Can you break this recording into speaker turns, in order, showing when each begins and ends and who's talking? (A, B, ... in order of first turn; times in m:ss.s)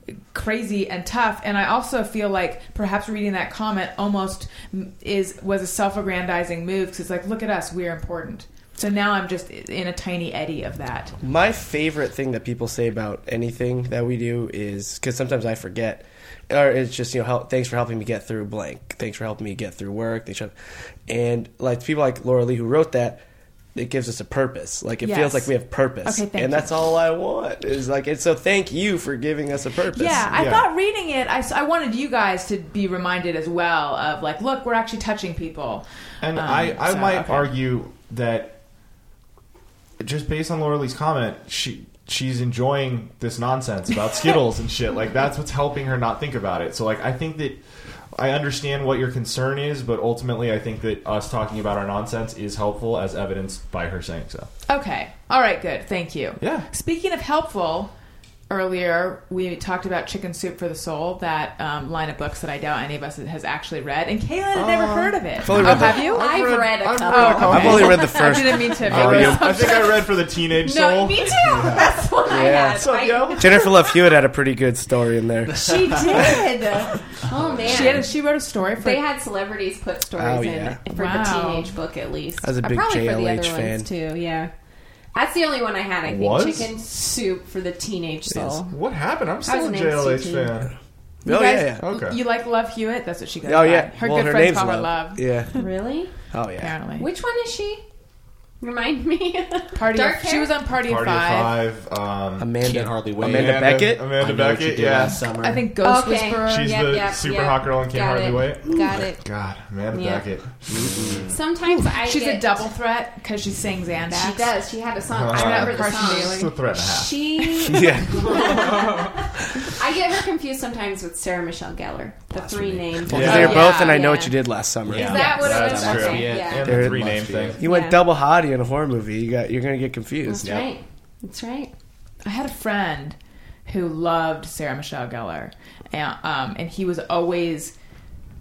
0:00.2-0:11.1 A
0:11.2-0:20.5 B
0:21.1-0:23.2 B
0:23.8-0:30.4 B
0:25.0-0:26.7 A
0:29.9-0:37.5 A
0:30.3-0:30.7 C
0:36.2-0:38.6 C
0:40.0-0:54.5 C
0:54.7-0:57.9 A
0:56.4-0:56.7 C
0:58.5-1:06.3 A
1:04.5-1:08.2 C
1:05.4-1:06.1 B
1:05.6-1:08.5 D
1:07.0-1:10.0 A
1:07.4-1:09.7 B
1:08.8-1:12.1 C
1:09.4-1:14.0 D
1:11.5-1:11.9 E
1:12.2-1:16.0 B
1:12.8-1:13.7 C
1:15.5-1:16.4 E
1:15.5-1:18.2 D
1:16.0-1:16.5 A
1:17.3-1:18.0 E
1:17.7-1:19.0 A
1:18.8-1:24.5 D
1:20.2-1:20.8 B
1:20.9-1:21.7 A
1:22.4-1:23.9 B
1:25.2-1:28.7 D
1:26.1-1:26.7 C
1:28.7-1:30.7 C
1:29.4-1:30.5 D
1:31.2-1:31.8 B
1:31.3-1:35.6 A
1:31.8-1:32.2 C
1:33.4-1:35.6 B
1:35.6-1:36.1 D
1:36.3-1:36.8 B
1:36.6-1:37.1 A
1:37.0-1:37.8 D
1:38.6-1:40.6 D
1:39.8-1:41.6 A
1:40.7-1:42.5 C
1:42.4-1:44.1 B
1:42.6-1:45.7 E
1:43.2-1:45.2 C
1:45.4-1:46.8 A
1:45.8-1:49.2 D
1:46.4-1:51.0 C
1:49.9-1:50.2 D
1:50.8-1:51.3 E
1:50.8-1:51.1 B
1:51.3-1:52.6 D
1:51.7-1:54.5 A
1:54.1-2:04.3 D
1:55.1-1:57.2 C
1:55.3-1:56.5 A
1:57.6-1:58.4 B
2:02.3-2:03.5 E
2:03.1-2:05.2 B
2:03.1-2:03.6 C
2:03.2-2:04.3 A
2:04.9-2:07.6 E
2:04.9-2:06.7 D
2:05.0-2:06.0 A
2:05.2-2:07.6 C
2:06.6-2:10.6 B
2:07.6-2:08.0 D
2:10.2-2:11.7 D
2:10.4-2:10.7 E
2:12.2-2:17.7 A